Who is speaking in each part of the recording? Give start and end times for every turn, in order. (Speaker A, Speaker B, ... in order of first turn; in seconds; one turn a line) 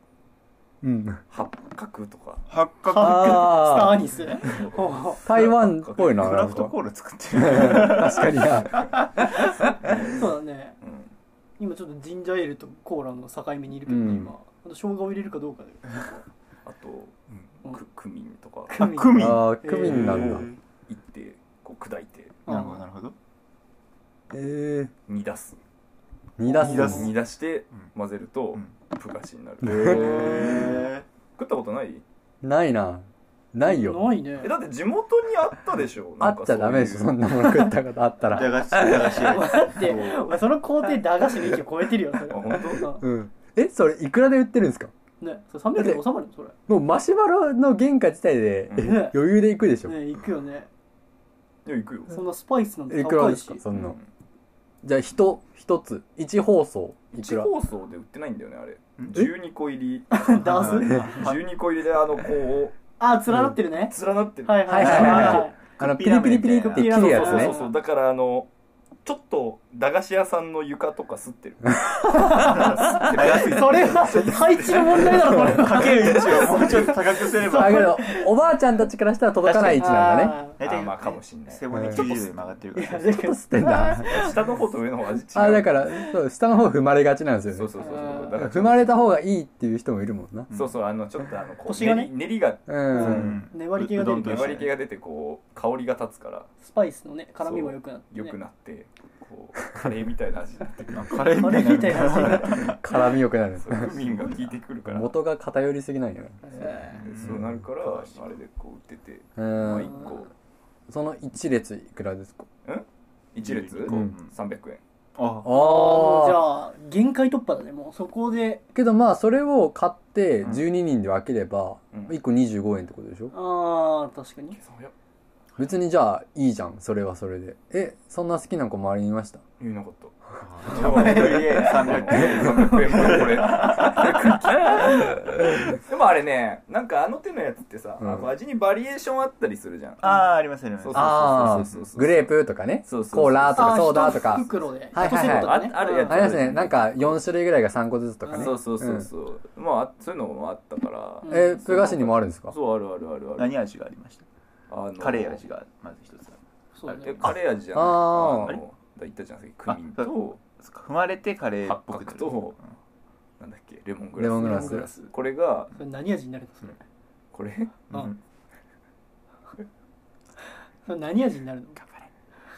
Speaker A: 0.8-1.2
Speaker B: 1.3-2.4
Speaker C: 2.5-3.7
Speaker D: 2.9-5.2
Speaker A: 3.0-4.0
Speaker B: 4.4-6.7
Speaker A: 5.2-6.7
Speaker C: 6.1-8.9
Speaker A: 7.3-8.9
Speaker D: 9.2-10.8
Speaker B: 10.8-11.1
Speaker D: 11.6-16.2
Speaker A: 13.9-14.3
Speaker B: 16.6-17.1
Speaker B: 17.6-18.7
Speaker D: 18.7-20.4
Speaker C: 18.7-20.6
Speaker A: 19.1-20.5
Speaker B: 20.9-22.4
Speaker D: 22.4-22.8
Speaker C: 22.5-23.1
Speaker A: 24.3-24.9
Speaker B: 25.1-25.6
Speaker A: 26.4-27.1
Speaker D: 26.4-27.0
Speaker C: 26.6-27.9
Speaker B: 26.6-30.9
Speaker C: 29.6-31.1
Speaker A: 29.6-30.0
Speaker B: 31.4-32.0
Speaker A: 32.4-34.1
Speaker D: 33.6-34.5
Speaker B: 34.4-37.2
Speaker A: 36.2-39.1
Speaker C: 38.3-39.8
Speaker D: 38.9-43.0
Speaker B: 39.4-40.4
Speaker B: 42.3-43.0
Speaker A: 42.7-44.9
Speaker D: 45.2-46.5
Speaker A: 45.7-46.0
Speaker A: 46.7-50.0
Speaker B: 48.7-49.0
Speaker D: 48.8-49.1
Speaker D: 49.8-50.7
Speaker B: 51.6-52.2
Speaker D: 52.1-53.6
Speaker A: 52.9-54.0
Speaker B: 53.7-54.0
Speaker A: 54.8-57.5
Speaker B: 57.2-62.8
Speaker D: 60.1-61.2
Speaker C: 60.5-61.5
Speaker D: 63.0-65.5
Speaker B: 63.9-65.2
Speaker A: 64.7-67.5
Speaker C: 64.7-67.5
Speaker D: 66.6-67.8
Speaker B: 67.0-68.5
Speaker B: 69.0-76.9
Speaker D: 72.1-78.3
Speaker C: 72.3-78.0
Speaker A: 77.4-80.4
Speaker D: 79.5-80.6
Speaker B: 79.5-79.8
Speaker C: 80.6-83.3
Speaker B: 80.6-82.1
Speaker A: 81.7-82.0
Speaker D: 82.7-84.3
Speaker A: 83.2-84.2
Speaker B: 84.0-86.1
Speaker A: 85.3-90.5
Speaker B: 87.5-89.0
Speaker D: 87.8-88.3
Speaker C: 90.5-90.8
Speaker B: 90.5-93.2
Speaker D: 91.7-92.1
Speaker A: 92.7-93.4
Speaker D: 92.9-94.6
Speaker C: 92.9-94.7
Speaker B: 94.2-96.5
Speaker D: 96.6-98.4
Speaker B: 97.4-101.0
Speaker C: 100.9-102.8
Speaker D: 101.2-102.7
Speaker B: 101.8-102.8
Speaker A: 102.5-104.0
Speaker B: 103.6-105.2
Speaker C: 103.7-104.6
Speaker A: 104.8-106.8
Speaker D: 106.4-107.0
Speaker C: 106.9-108.4
Speaker B: 107.0-110.3
Speaker A: 109.4-110.1
Speaker A: 110.9-112.5
Speaker B: 112.6-114.8
Speaker C: 113.4-114.3
Speaker A: 113.9-114.1
Speaker C: 115.2-115.5
Speaker A: 115.4-116.4
Speaker D: 115.4-118.6
Speaker A: 118.7-123.3
Speaker B: 121.9-122.2
Speaker D: 123.3-124.6
Speaker B: 124.6-124.9
Speaker A: 125.6-129.4
Speaker B: 129.6-140.2
Speaker C: 130.5-134.6
Speaker A: 138.0-138.3
Speaker C: 140.0-141.9
Speaker B: 140.8-142.3
Speaker A: 140.9-149.1
Speaker B: 142.8-144.4
Speaker D: 143.5-146.2
Speaker B: 145.0-147.2
Speaker B: 148.2-153.6
Speaker D: 151.2-151.6
Speaker A: 151.3-152.5
Speaker C: 153.4-154.2
Speaker B: 154.7-155.4
Speaker C: 155.0-157.3
Speaker D: 156.7-157.2
Speaker B: 156.9-160.4
Speaker A: 157.2-158.6
Speaker C: 159.7-162.7
Speaker B: 161.6-162.6
Speaker B: 163.4-165.7
Speaker A: 164.2-164.9
Speaker D: 164.3-165.1
Speaker D: 165.7-166.8
Speaker B: 167.3-168.1
Speaker C: 167.9-168.2
Speaker D: 170.8-171.8
Speaker C: 171.8-172.1